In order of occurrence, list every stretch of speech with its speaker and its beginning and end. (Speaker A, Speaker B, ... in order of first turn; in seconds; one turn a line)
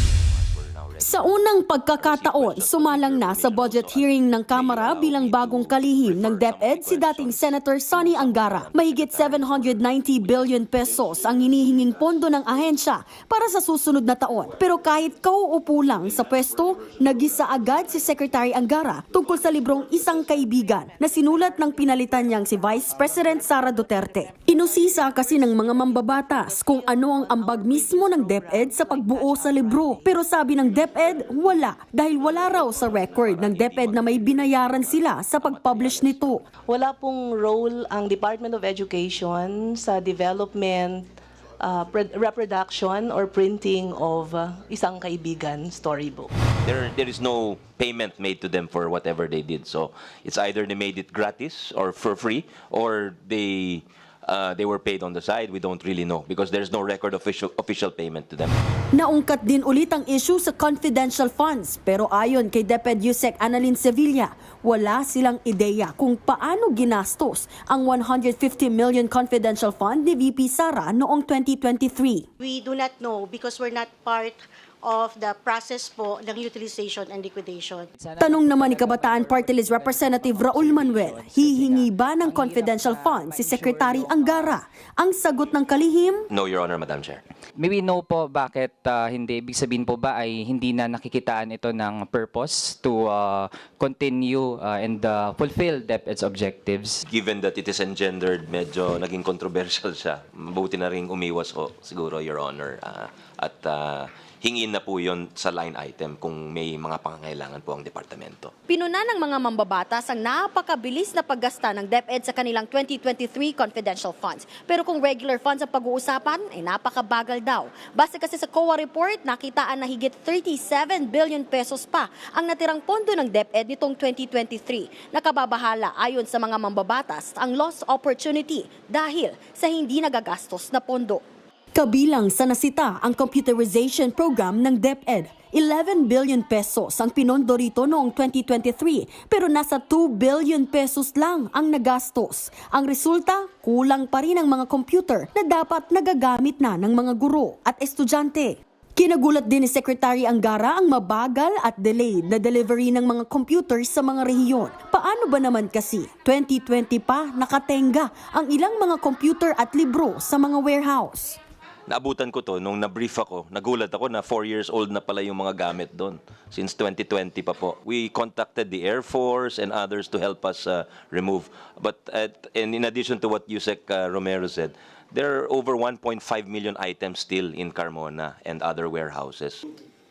Speaker A: 0.4-11.6
Speaker B: 1.0-36.4
Speaker C: 24.7-30.2
Speaker A: 32.2-36.3
Speaker C: 36.7-41.1
Speaker C: 41.6-46.3
Speaker A: 46.6-58.6
Speaker B: 58.9-72.3
Speaker D: 72.4-77.9
Speaker E: 78.0-84.5
Speaker B: 78.2-86.3
Speaker A: 86.3-87.2
Speaker E: 87.6-97.0
Speaker A: 97.1-108.5
Speaker B: 108.7-131.2
Speaker B: 131.7-161.4
Speaker A: 161.9-179.6